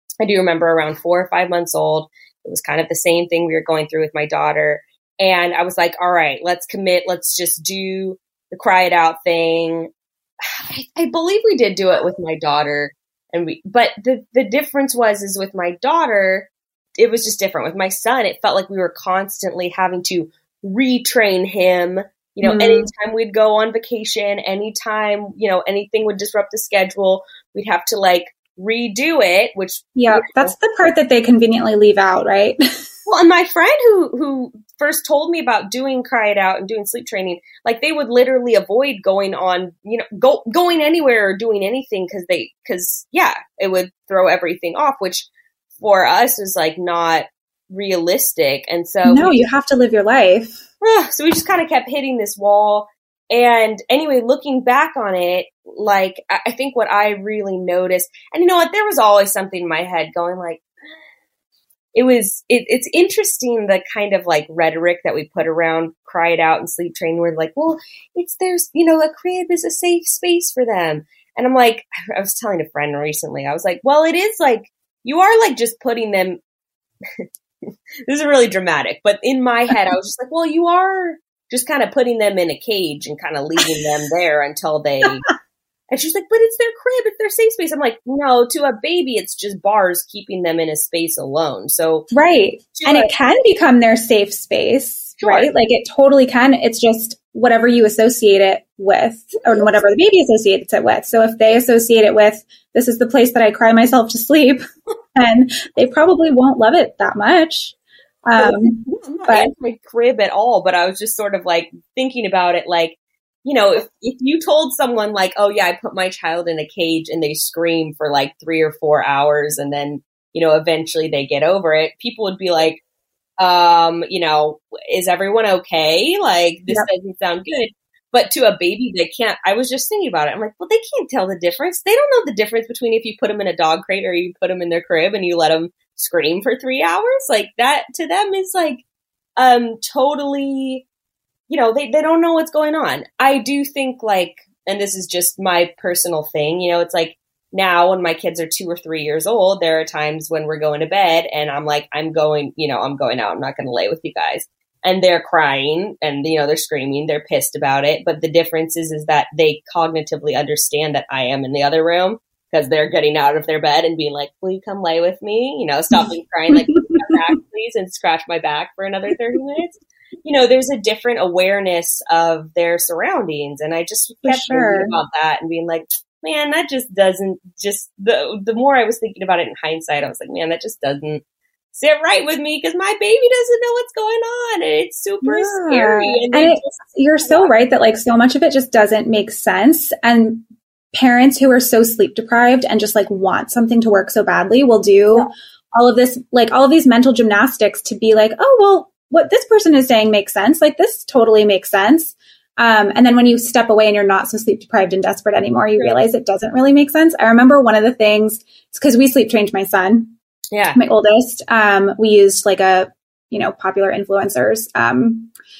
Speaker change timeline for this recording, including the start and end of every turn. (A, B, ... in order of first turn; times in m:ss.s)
0:00.2-0:30.5 A
0:22.4-0:22.9 B
0:30.0-0:32.6 B
0:33.1-0:45.3 A
0:45.8-0:49.5 A
0:49.0-0:50.6 B
0:50.8-1:00.6 A
1:02.0-1:16.4 A
1:18.1-1:25.3 A
1:25.9-1:32.1 A
1:32.1-1:44.6 B
1:32.7-1:33.1 A
1:35.2-1:35.5 A
1:45.2-1:49.5 B
1:48.4-2:02.8 A
2:03.4-2:18.8 A
2:19.4-2:20.8 A
2:21.5-3:01.2 A
2:46.5-2:46.9 B
2:54.2-2:54.9 B
3:01.7-3:07.5 A
3:05.2-3:30.1 B
3:30.5-3:30.8 A
3:30.8-3:35.3 B